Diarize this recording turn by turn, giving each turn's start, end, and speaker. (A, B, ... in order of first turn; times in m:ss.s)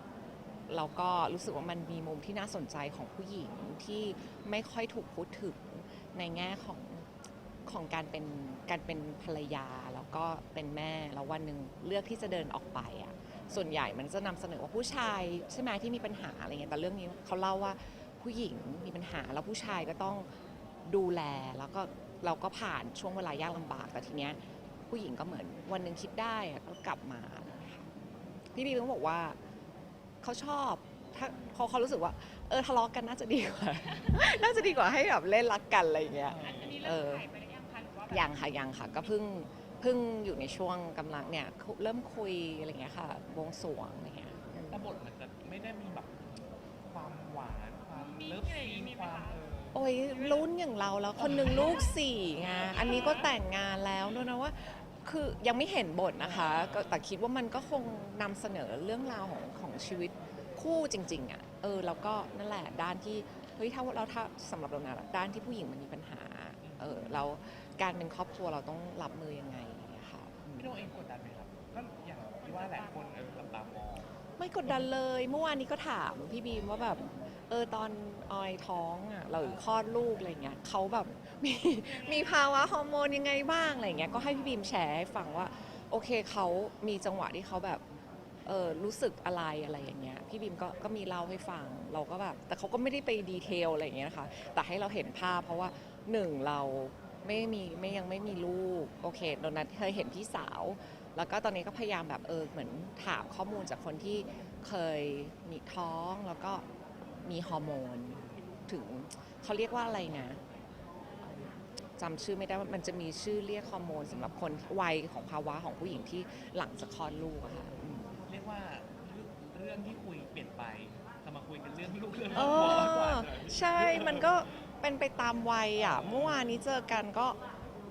0:00.7-0:07.1 A
0:07.7-0:20.3 A
0:20.8-0:27.8 A
0:28.5-0:29.4 A
0:30.2-0:37.3 A
0:34.0-0:34.5 B
0:36.3-0:36.8 C
0:36.4-0:39.1 B
0:38.1-0:44.8 A
0:44.7-0:49.8 C
0:48.0-0:49.4 B
0:49.7-1:10.8 A
0:50.0-0:50.4 B
0:51.2-0:51.7 C
0:52.4-0:52.9 C
0:52.7-0:53.3 B
0:56.4-0:56.9 C
1:06.6-1:07.2 C
1:10.6-1:14.1 C
1:12.4-1:13.1 B
1:14.4-1:27.8 A
1:21.8-1:22.4 B
1:28.4-1:46.6 A
1:47.2-1:50.4 A
1:48.1-1:48.4 C
1:52.0-1:58.1 A
1:58.2-2:04.4 C
2:02.3-2:07.4 A
2:05.9-2:06.3 C